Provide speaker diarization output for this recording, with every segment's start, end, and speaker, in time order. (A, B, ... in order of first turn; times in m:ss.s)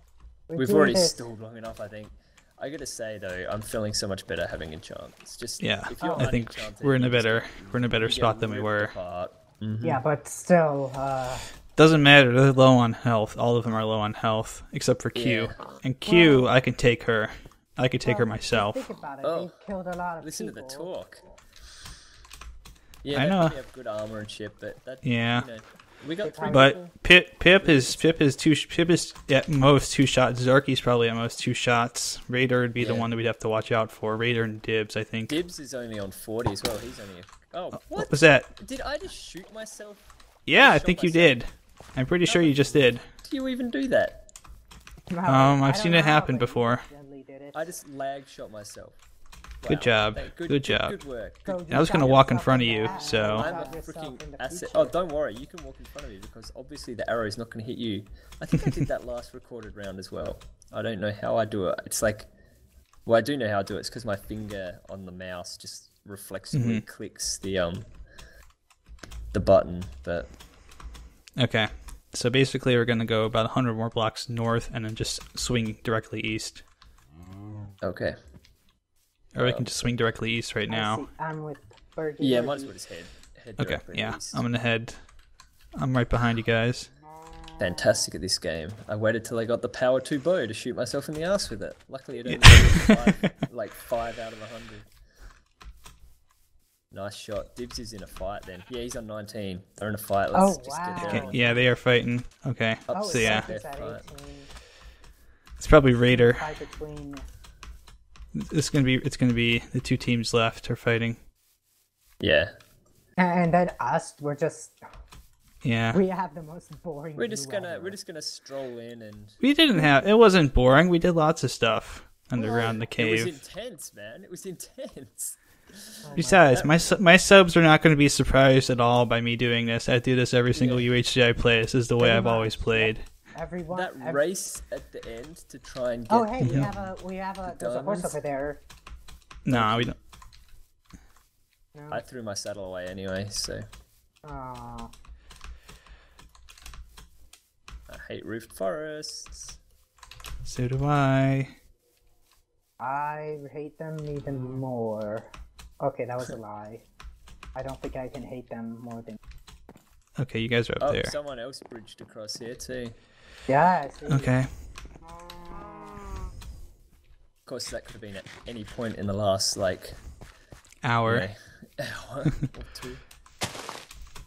0:00.5-0:01.2 A
0:00.6-0:10.0 B
0:05.6-0:08.9 C
0:06.0-0:06.3 A
0:09.8-0:11.5 A
0:11.8-0:18.8 C
0:15.1-0:15.5 B
0:16.0-0:16.5 A
0:18.0-0:20.9 A
0:19.2-0:19.5 B
0:20.2-0:21.2 B
0:23.0-0:27.0 B
0:23.1-0:23.6 C
0:25.0-0:25.5 C
0:26.2-0:26.8 A
0:26.5-0:35.3 C
0:27.5-0:28.1 B
0:32.8-0:33.1 B
0:35.3-0:41.4 B
0:37.7-0:38.5 C
0:40.4-0:43.1 C
0:42.2-0:44.3 B
0:45.1-0:47.7 A
0:45.2-0:46.8 C
0:47.5-0:49.0 B
0:49.6-1:02.3 B
0:49.6-0:51.0 C
0:51.5-0:54.9 A
0:51.7-0:53.6 C
1:03.0-1:07.9 B
1:06.5-1:06.8 C
1:09.3-1:10.3 B
1:11.4-1:16.6 C
1:17.8-1:18.1 B
1:19.3-1:21.0 C
1:19.4-1:19.9 B
1:20.7-1:22.7 A
1:22.2-1:24.4 B
1:23.6-1:25.0 C
1:25.8-1:26.9 C
1:27.6-1:34.9 B
1:32.3-1:33.3 C
1:36.9-1:41.4 B
1:40.3-1:41.7 A
1:41.0-1:43.5 C
1:42.9-1:44.0 B
1:42.9-1:44.5 A
1:45.6-1:46.4 C
1:46.0-1:47.2 A
1:48.3-1:51.2 C
1:52.2-1:52.5 B
1:53.2-1:54.8 A
1:55.6-1:56.0 C
1:55.9-1:58.0 A
1:57.2-1:59.4 B
1:59.4-2:03.4 C
1:59.7-2:00.0 A
2:02.3-2:02.8 A
2:03.0-2:07.0 B
2:06.0-2:06.4 A
2:06.2-2:13.0 C
2:10.5-2:10.9 B
2:12.0-2:14.2 A
2:13.7-2:16.9 B
2:16.1-2:18.6 A
2:16.4-2:16.7 C
2:17.5-2:18.2 B
2:19.4-2:20.0 C
2:19.5-2:19.9 B
2:21.7-2:22.0 A
2:21.9-2:23.6 B
2:24.2-2:24.9 A
2:27.9-2:29.6 B
2:30.4-2:31.5 C
2:32.8-2:36.8 A
2:37.5-2:39.2 A
2:40.2-2:41.1 C
2:40.8-2:42.9 B
2:43.5-2:44.3 A
2:44.1-2:44.5 C
2:47.4-2:50.0 B
2:50.8-2:51.3 C
2:51.0-2:53.0 B